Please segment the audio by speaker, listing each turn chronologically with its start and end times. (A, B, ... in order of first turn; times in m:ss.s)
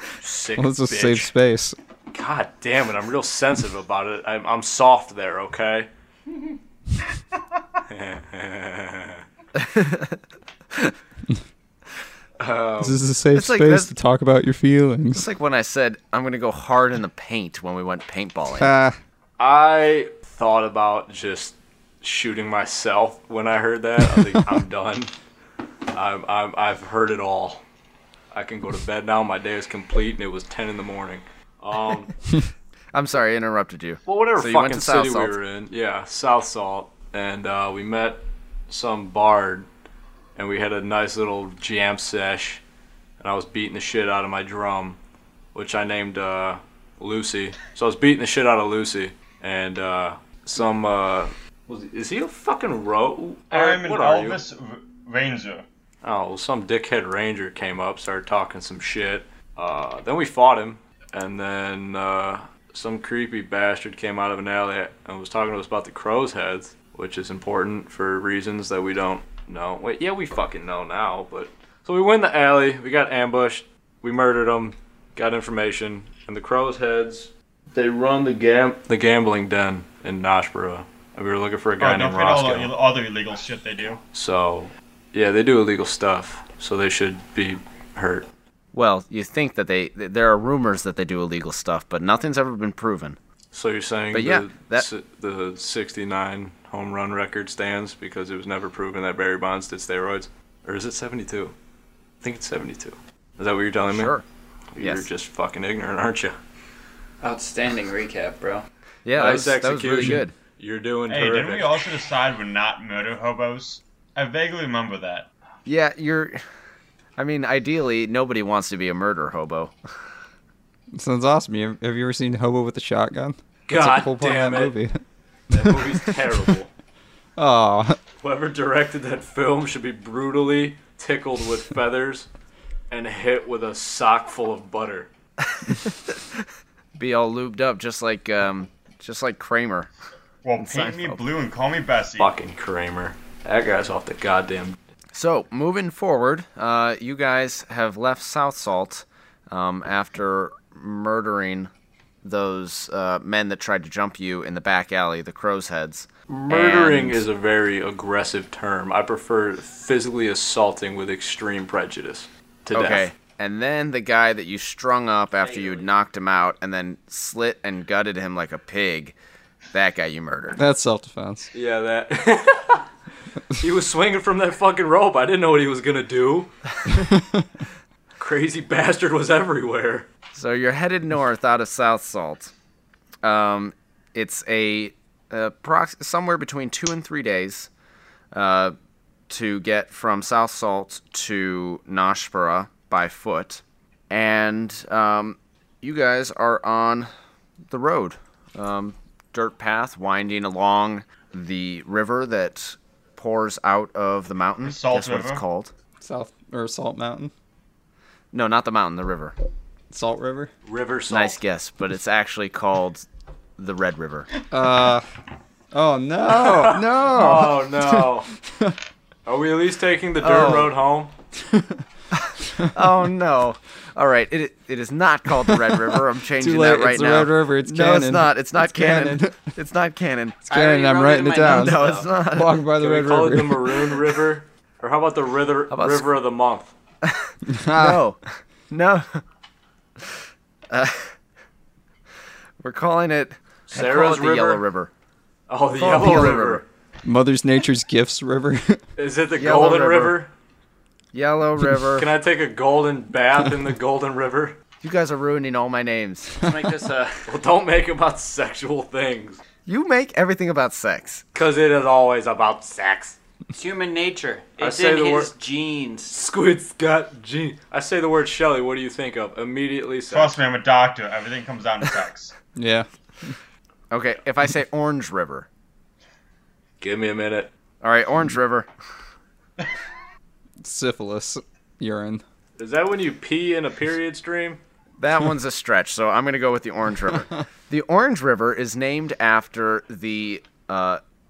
0:00.2-0:01.3 A
0:00.6-0:01.8 B
0:02.1-0:05.9 A
0:07.9-0:09.2 A
0:09.6-0:10.2 C
0:12.4-0:13.0 A
0:12.8-0:15.3 B
0:13.3-0:13.9 C
0:15.1-0:18.7 C
0:18.6-0:19.0 B
0:19.4-0:25.1 A
0:24.2-0:24.4 B
0:25.9-0:27.6 A
0:28.3-0:32.2 A
0:32.9-0:35.3 C
0:34.1-0:39.7 A
0:40.4-0:42.6 A
0:43.2-0:45.0 A
0:45.5-0:54.4 A
0:53.5-0:55.7 D
0:56.0-1:22.7 A
1:21.8-1:24.0 D
1:24.1-1:28.3 A
1:28.7-1:33.2 C
1:33.5-1:41.5 A
1:34.1-1:34.9 C
1:42.2-1:44.1 A
1:43.9-1:44.2 C
1:44.7-1:46.4 A
1:44.8-1:45.1 C
1:47.2-1:48.7 E
1:49.0-1:50.3 C
1:49.2-1:51.8 A
1:51.1-1:55.3 D
1:55.6-1:56.4 C
1:57.2-1:59.8 C
2:01.0-2:05.0 B
2:03.7-2:04.8 A
2:05.5-2:06.7 A
2:05.5-2:06.0 B
2:07.4-2:08.0 B
2:08.2-2:12.3 A
2:12.9-2:15.1 A
2:15.5-2:16.2 C
2:17.0-2:19.9 C
2:20.4-2:22.3 D
2:20.6-2:21.2 C
2:22.2-2:24.8 A
2:25.1-2:31.7 C
2:32.2-2:37.2 C
2:36.3-2:43.1 A
2:42.7-2:49.2 C
2:45.4-2:45.8 E
2:49.7-2:50.6 C
2:50.6-2:51.5 B
2:51.5-2:52.9 A
2:53.5-2:56.5 A
2:57.0-2:57.4 B
2:58.2-3:00.1 A
3:00.3-3:02.5 C
3:03.2-3:07.7 C
3:08.3-3:08.8 C
3:09.3-3:17.1 C
3:17.7-3:25.7 C
3:24.6-3:25.4 D
3:26.0-3:27.3 B
3:28.3-3:29.4 C
3:29.9-3:30.5 B
3:30.6-3:31.4 A
3:31.1-3:33.1 C
3:33.6-3:34.3 C
3:34.5-3:35.1 B
3:35.7-3:38.8 B
3:36.2-3:38.3 A
3:39.3-3:41.1 A
3:40.2-3:40.8 C
3:41.4-3:41.8 B
3:42.2-3:50.5 C
3:45.5-3:49.5 B
3:50.5-3:52.1 E
3:50.5-3:53.8 B
3:51.3-3:52.6 C
3:52.8-3:56.7 A
3:55.7-3:56.1 C
3:57.0-3:59.2 C
3:57.5-3:58.0 B
4:00.7-4:01.1 C
4:02.6-4:04.9 C
4:03.7-4:04.6 A
4:05.5-4:06.6 A
4:05.8-4:06.6 C
4:06.0-4:06.3 B
4:07.0-4:08.8 B
4:09.0-4:10.3 A
4:09.4-4:10.2 C
4:11.1-4:12.1 C
4:12.0-4:14.6 A
4:14.8-4:16.4 C
4:16.4-4:17.3 E
4:17.3-4:19.4 A
4:19.7-4:21.2 C
4:21.3-4:23.2 A
4:23.5-4:26.2 E
4:24.6-4:25.3 A
4:26.1-4:30.4 A
4:30.1-4:32.3 D
4:32.6-4:33.4 B
4:33.9-4:35.5 C
4:36.8-4:37.5 A
4:37.8-4:38.7 C
4:40.6-4:42.2 B
4:42.6-4:44.6 A
4:45.0-4:51.0 C